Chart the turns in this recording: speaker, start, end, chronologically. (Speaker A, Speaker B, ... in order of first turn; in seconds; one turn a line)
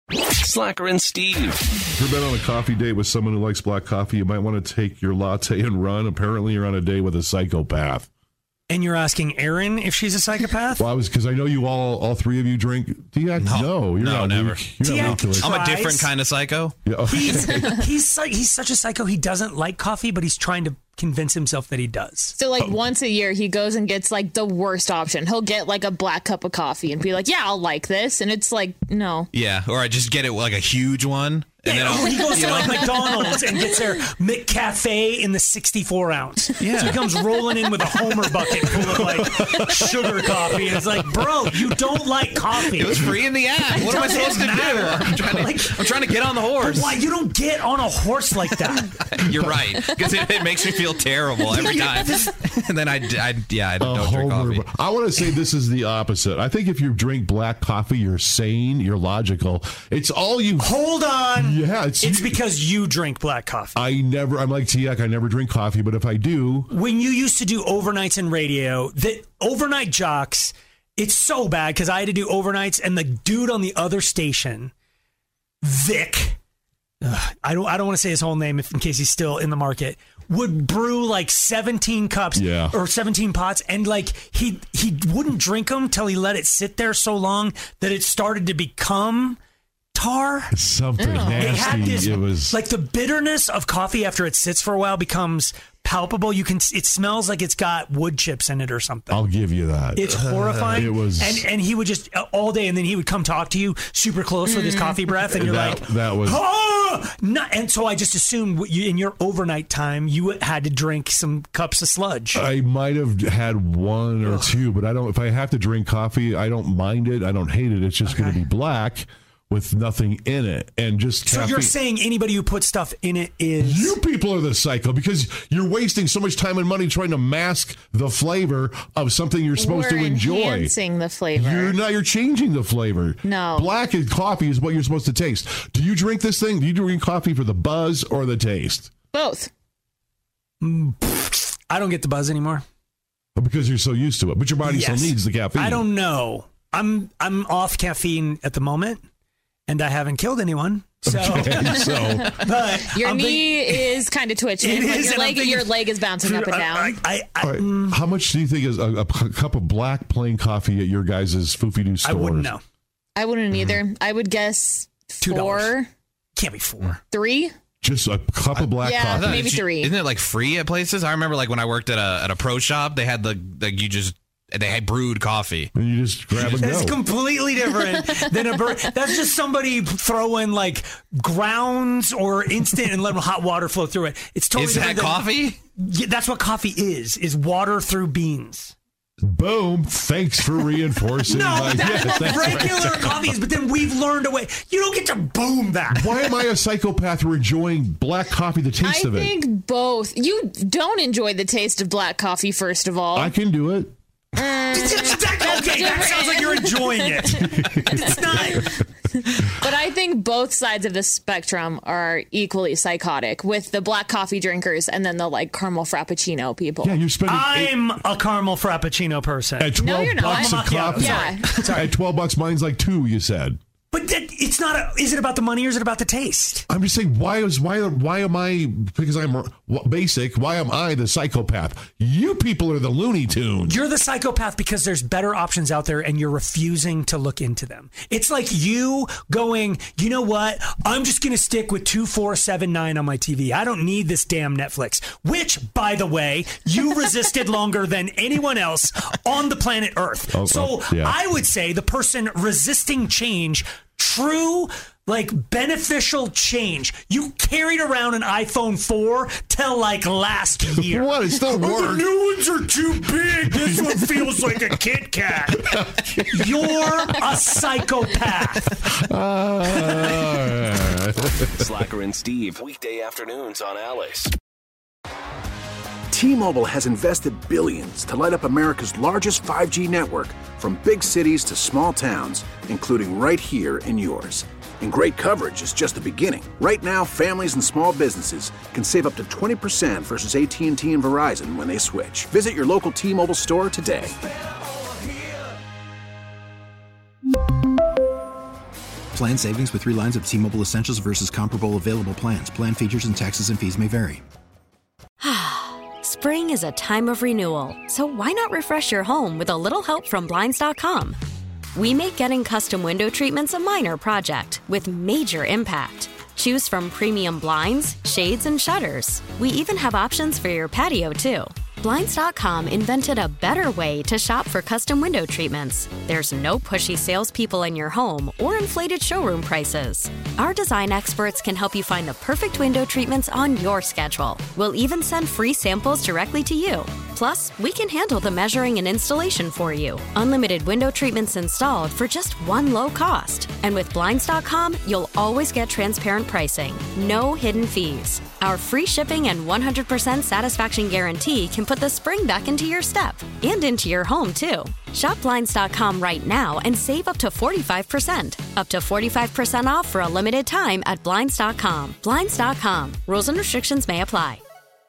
Speaker A: 0.4-1.7
Speaker B: 1.9-8.1
Speaker C: 8.7-10.8
Speaker B: 10.8-15.5
Speaker D: 13.4-16.8
Speaker C: 14.8-16.1
Speaker B: 16.8-17.7
Speaker C: 17.1-22.4
Speaker E: 22.4-29.3
Speaker D: 29.3-33.1
Speaker C: 31.7-49.0
Speaker E: 31.9-33.6
Speaker D: 36.6-37.0
Speaker B: 39.1-39.5
Speaker D: 42.6-47.0
Speaker D: 49.1-54.7
Speaker C: 51.5-52.3
Speaker B: 53.8-60.7
Speaker C: 60.6-63.8
Speaker B: 61.3-62.4
Speaker B: 63.7-66.7
Speaker C: 66.7-74.7
Speaker C: 75.6-76.4
Speaker C: 77.0-89.4
Speaker B: 82.3-82.7
Speaker C: 89.9-90.5
Speaker B: 90.5-92.6
Speaker E: 91.0-92.0
Speaker C: 91.2-99.2
Speaker B: 99.1-100.1
Speaker C: 99.9-112.4
Speaker D: 100.3-100.6
Speaker B: 100.7-101.5
Speaker E: 104.5-105.0
Speaker B: 105.3-106.4
Speaker B: 112.3-121.7
Speaker C: 114.2-114.5
Speaker C: 118.0-118.4
Speaker C: 121.2-124.0
Speaker B: 123.6-130.8
Speaker E: 129.6-131.8
Speaker B: 131.3-138.9
Speaker E: 133.2-133.7
Speaker E: 139.1-139.5
Speaker C: 140.6-142.6
Speaker B: 143.3-145.8
Speaker C: 144.6-149.0
Speaker C: 149.7-154.0
Speaker B: 151.1-152.5
Speaker E: 151.8-157.0
Speaker C: 154.6-158.0
Speaker B: 157.4-162.5
Speaker C: 162.0-162.6
Speaker E: 163.2-165.9
Speaker D: 163.5-163.8
Speaker C: 165.2-165.8
Speaker C: 166.3-167.0
Speaker E: 167.1-167.5
Speaker B: 167.8-169.5
Speaker D: 168.5-175.7
Speaker E: 168.8-169.9
Speaker B: 175.7-177.0
Speaker C: 176.4-188.7
Speaker D: 184.5-185.6
Speaker B: 189.2-193.1
Speaker C: 191.2-196.2
Speaker D: 192.4-192.8
Speaker B: 195.9-199.4
Speaker E: 198.8-203.3
Speaker B: 203.1-203.9
Speaker E: 204.3-216.9
Speaker C: 204.7-208.7
Speaker B: 207.3-208.8
Speaker B: 216.8-217.8
Speaker C: 217.2-219.7
Speaker B: 219.6-223.6
Speaker E: 219.8-221.5
Speaker C: 220.2-221.9
Speaker C: 223.9-226.7
Speaker B: 226.7-233.8
Speaker C: 233.7-268.8
Speaker B: 250.3-251.2
Speaker B: 260.7-262.1
Speaker B: 263.5-264.5
Speaker B: 265.7-266.5
Speaker B: 268.8-271.5
Speaker A: 271.4-274.3
Speaker F: 276.1-294.1
Speaker G: 299.1-304.2
Speaker H: 305.2-311.2
Speaker H: 311.7-364.4